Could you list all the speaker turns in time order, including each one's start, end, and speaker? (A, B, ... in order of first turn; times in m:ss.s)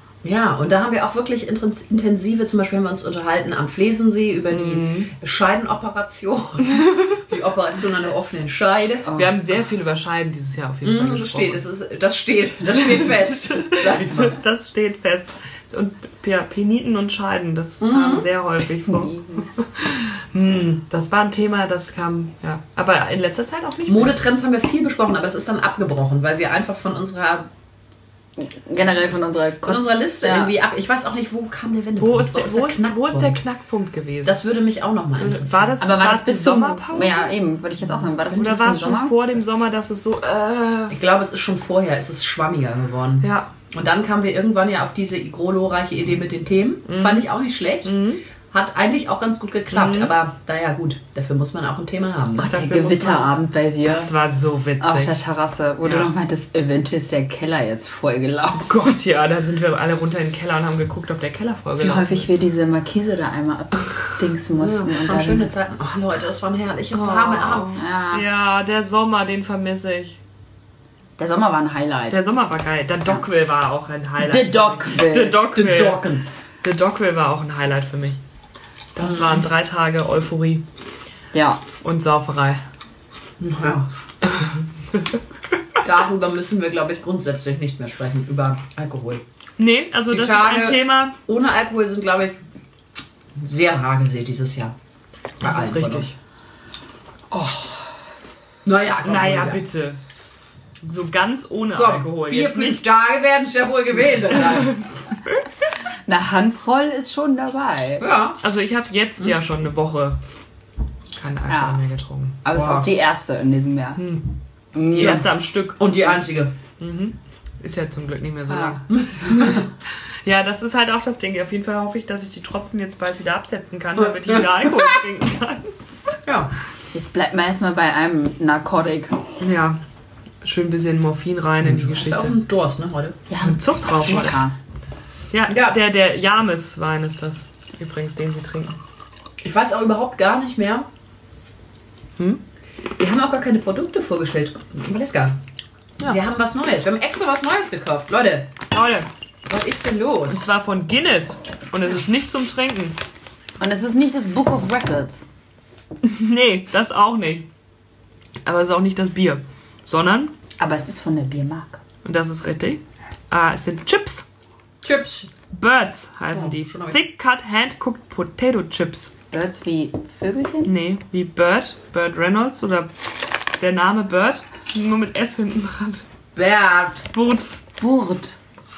0:00.2-0:09.1 A
0:04.5-0:05.1 B
0:09.0-0:09.3 C
0:09.1-0:11.6 B
0:10.8-0:14.4 A
0:12.8-0:24.2 B
0:17.8-0:18.3 A
0:18.9-0:19.4 C
0:23.9-0:27.5 A
0:28.4-0:30.5 C
0:29.6-0:33.4 A
0:32.0-0:34.4 B
0:34.2-0:35.8 A
0:35.1-0:37.3 B
0:35.8-0:39.4 C
0:38.2-0:41.0 B
0:40.9-0:53.0 A
0:43.2-0:43.5 B
0:46.9-0:47.3 B
0:47.8-0:48.2 B
0:49.7-0:50.1 B
0:52.4-0:54.1 C
0:52.4-0:55.1 B
0:54.8-0:59.0 C
0:55.8-0:56.1 B
0:58.6-1:02.2 B
1:01.8-1:05.5 C
1:04.6-1:07.8 A
1:06.9-1:10.2 B
1:07.8-1:08.3 C
1:11.2-1:12.2 C
1:12.1-1:16.1 B
1:14.2-1:15.4 C
1:15.5-1:16.2 A
1:16.6-1:18.2 B
1:18.9-1:20.6 B
1:19.0-1:19.4 A
1:21.3-1:21.6 C
1:21.8-1:22.6 B
1:23.4-1:23.9 A
1:25.8-1:29.2 A
1:29.6-1:31.1 B
1:30.1-1:32.4 A
1:33.4-1:34.7 A
1:35.4-1:36.1 A
1:35.4-1:36.1 B
1:37.3-1:38.0 C
1:38.6-1:39.6 A
1:39.0-1:40.0 B
1:40.8-1:42.8 B
1:41.7-1:44.8 A
1:44.4-1:44.9 B
1:46.1-1:48.0 C
1:48.0-1:48.4 A
1:48.4-1:50.2 B
1:51.1-1:52.4 B
1:51.5-1:51.8 C
1:52.4-1:54.0 C
1:52.5-1:52.9 A
1:54.0-1:54.3 B
1:54.7-1:55.2 C
1:54.8-1:55.9 B
1:55.0-1:56.6 A
1:56.8-1:59.7 B
1:58.5-1:58.8 C
1:58.9-1:59.7 A
2:00.2-2:05.7 B
2:04.0-2:05.0 A
2:06.2-2:06.5 A
2:06.9-2:09.3 C
2:09.4-2:09.8 B
2:10.4-2:12.4 B
2:11.6-2:13.2 A
2:13.3-2:14.6 C
2:13.4-2:14.4 B
2:15.3-2:18.8 B
2:15.5-2:15.8 A
2:19.4-2:20.9 A
2:23.0-2:25.4 A
2:26.0-2:28.5 A
2:28.7-2:29.1 B
2:29.5-2:30.4 A
2:30.3-2:33.0 B
2:33.6-2:35.2 C
2:36.0-2:37.4 B
2:38.4-2:40.3 B
2:40.6-2:41.8 C
2:42.0-2:44.2 B
2:44.8-2:45.3 A
2:45.5-2:49.1 B
2:46.3-2:47.0 A
2:49.3-2:50.7 C
2:50.6-2:52.9 B
2:53.6-2:56.0 B
2:56.3-2:57.0 A
2:57.1-2:57.6 B
2:57.8-2:58.4 C